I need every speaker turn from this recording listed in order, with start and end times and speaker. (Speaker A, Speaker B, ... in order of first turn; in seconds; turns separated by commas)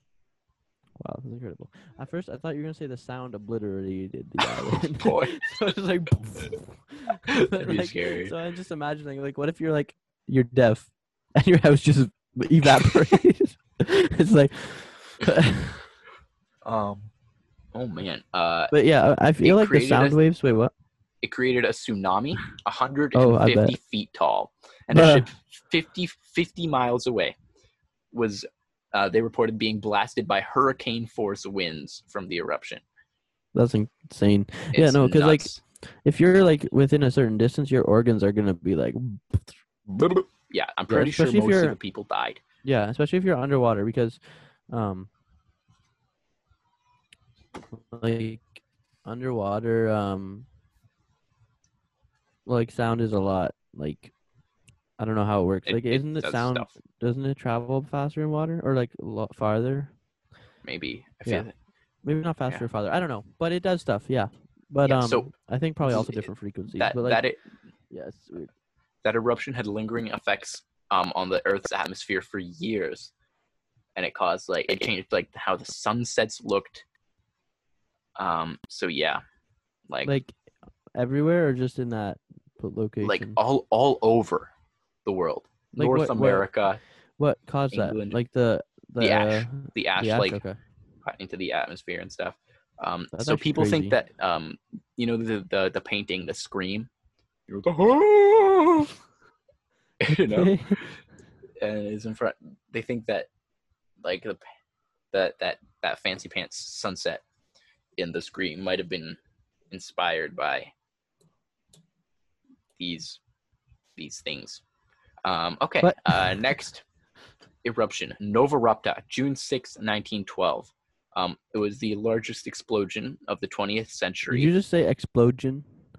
Speaker A: 1.0-15.9, Speaker B: 4.4-5.4, Speaker B: 7.3-8.3, Speaker B: 16.6-17.1, Speaker B: 17.7-18.7, Speaker A: 18.7-20.7, Speaker B: 19.4-20.2, Speaker B: 21.2-27.4, Speaker A: 23.1-23.8, Speaker A: 24.9-25.3, Speaker B: 28.1-32.8, Speaker A: 33.5-35.5, Speaker B: 34.7-35.6, Speaker A: 36.0-39.6, Speaker B: 39.9-42.4, Speaker A: 40.9-41.8, Speaker A: 42.6-45.1, Speaker A: 47.7-50.5, Speaker A: 52.5-54.1, Speaker A: 55.0-59.9, Speaker B: 55.6-56.7, Speaker B: 60.6-61.5, Speaker A: 62.0-67.2, Speaker B: 64.8-65.3, Speaker B: 65.8-67.4, Speaker A: 67.9-68.5, Speaker B: 69.0-73.1, Speaker B: 74.0-76.8, Speaker B: 78.2-79.2, Speaker B: 79.9-80.1, Speaker A: 80.0-80.3, Speaker A: 81.0-83.4, Speaker B: 83.0-84.5, Speaker B: 85.0-86.8, Speaker A: 85.8-86.5, Speaker A: 87.2-90.6, Speaker B: 87.7-88.2, Speaker B: 89.0-90.4, Speaker B: 91.0-96.9, Speaker A: 93.1-94.0, Speaker B: 97.5-98.9, Speaker B: 100.0-101.0, Speaker A: 100.1-100.8, Speaker B: 101.6-103.3, Speaker B: 104.0-104.4, Speaker B: 105.1-107.2, Speaker B: 108.0-109.2, Speaker B: 109.7-110.7, Speaker B: 112.8-113.2, Speaker B: 114.0-114.6, Speaker B: 115.2-116.8, Speaker A: 115.8-116.5, Speaker B: 117.6-124.5, Speaker A: 124.3-125.7